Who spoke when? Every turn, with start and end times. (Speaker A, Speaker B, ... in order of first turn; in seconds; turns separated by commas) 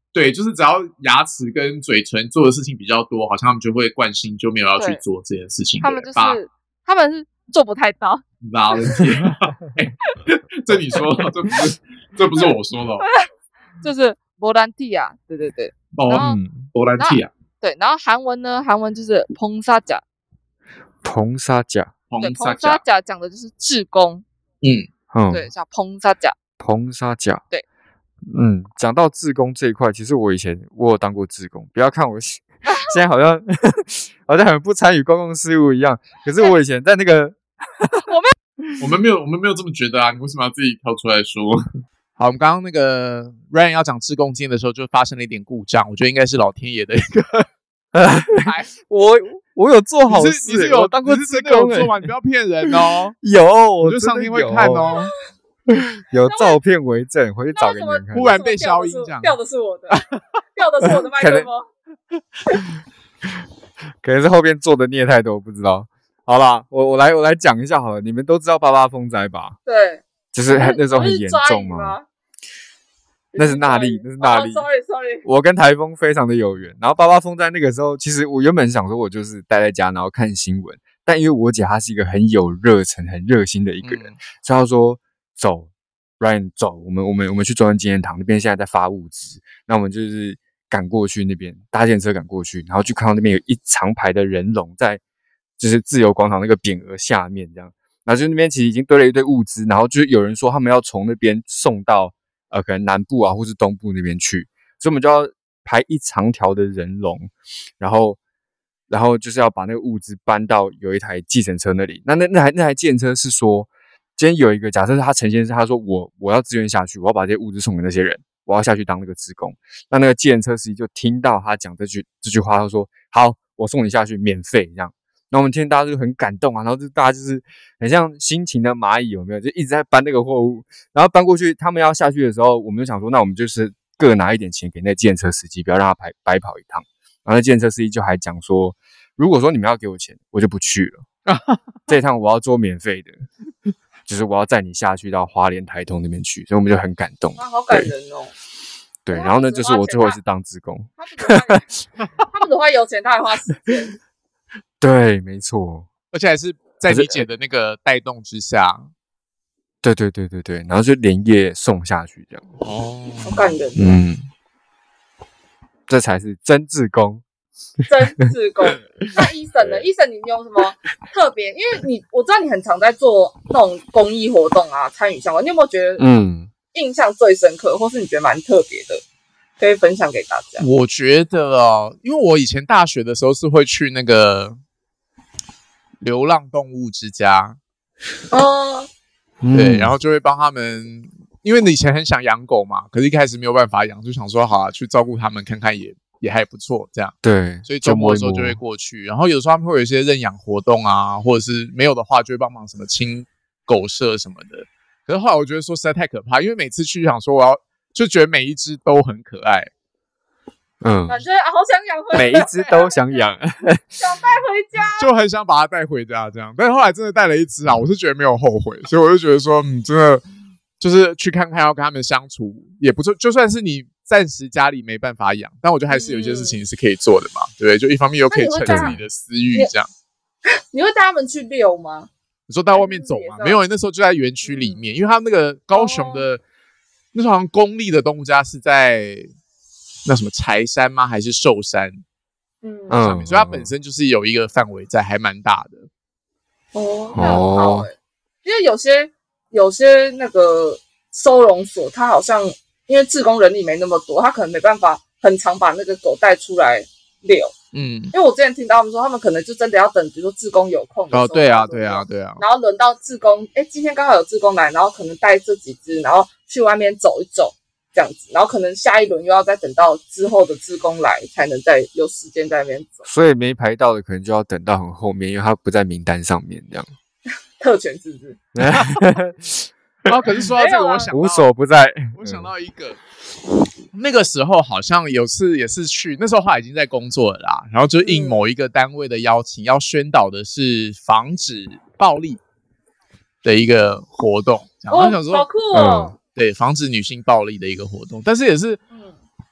Speaker A: 0.1-6.4, Speaker B: 5.8-8.2, Speaker A: 8.4-13.1, Speaker B: 8.8-9.1, Speaker B: 13.0-13.3, Speaker B: 13.8-16.4, Speaker A: 15.9-17.3, Speaker C: 16.1-16.7, Speaker B: 17.0-20.0, Speaker C: 21.0-21.9, Speaker A: 22.1-22.8, Speaker B: 22.2-24.2, Speaker A: 24.6-24.9, Speaker C: 25.1-25.5, Speaker B: 25.3-26.4, Speaker C: 26.6-27.4, Speaker C: 28.3-37.9, Speaker B: 32.6-33.0, Speaker B: 38.0-38.3, Speaker A: 38.8-47.5, Speaker C: 47.9-52.0, Speaker A: 48.3-48.7, Speaker A: 50.1-53.2, Speaker C: 52.7-55.0, Speaker A: 53.8-55.1, Speaker C: 55.7-58.4, Speaker B: 56.3-56.6, Speaker B: 57.5-60.0, Speaker A: 58.1-59.3, Speaker B: 60.5-61.7, Speaker C: 61.2-61.5, Speaker C: 64.0-69.6, Speaker B: 69.7-72.0, Speaker C: 70.3-72.0, Speaker B: 73.3-75.2, Speaker C: 73.4-74.7, Speaker C: 75.2-95.0, Speaker A: 83.8-84.2, Speaker C: 95.6-108.2, Speaker C: 108.9-141.1, Speaker A: 141.3-141.6, Speaker C: 141.9-143.2, Speaker C: 144.1-147.9, Speaker B: 147.4-148.3, Speaker C: 149.1-151.6, Speaker B: 149.1-150.2, Speaker B: 151.0-151.7, Speaker B: 152.3-154.0, Speaker C: 154.8-155.9, Speaker A: 156.1-158.9, Speaker C: 156.9-157.2, Speaker C: 159.8-162.5, Speaker A: 162.6-163.6, Speaker B: 163.2-164.0, Speaker C: 163.8-164.2, Speaker C: 165.9-167.2, Speaker B: 167.9-176.1, Speaker C: 169.6-169.8, Speaker C: 176.0-176.5, Speaker B: 176.7-179.0, Speaker B: 179.6-180.7, Speaker A: 180.6-184.6, Speaker A: 186.0-187.6, Speaker B: 188.3-188.9, Speaker C: 189.4-189.9, Speaker A: 189.5-209.7, Speaker C: 197.2-198.6, Speaker C: 210.8-211.2, Speaker B: 211.1-213.3, Speaker C: 212.1-214.0, Speaker B: 214.0-215.1, Speaker A: 215.0-220.2, Speaker A: 220.8-229.9, Speaker B: 225.9-226.6, Speaker B: 228.3-229.0, Speaker C: 228.7-229.0, Speaker B: 230.7-232.1, Speaker A: 232.5-236.4, Speaker B: 232.7-233.6, Speaker B: 234.4-234.8, Speaker B: 235.7-236.3, Speaker A: 237.1-239.3, Speaker A: 240.1-242.0, Speaker B: 242.6-243.0, Speaker C: 242.9-243.7, Speaker A: 243.0-245.9, Speaker B: 246.7-257.5, Speaker C: 247.2-247.9, Speaker A: 257.7-258.1, Speaker B: 258.1-273.1, Speaker A: 261.1-262.4, Speaker C: 273.1-276.9, Speaker B: 277.6-278.4, Speaker C: 278.6-280.2, Speaker A: 280.1-281.5, Speaker B: 280.5-281.1, Speaker C: 281.1-282.5, Speaker A: 282.1-283.0, Speaker A: 283.9-292.4, Speaker B: 288.0-288.4, Speaker A: 293.4-295.5, Speaker B: 294.9-296.2, Speaker C: 295.7-296.1, Speaker A: 296.3-298.8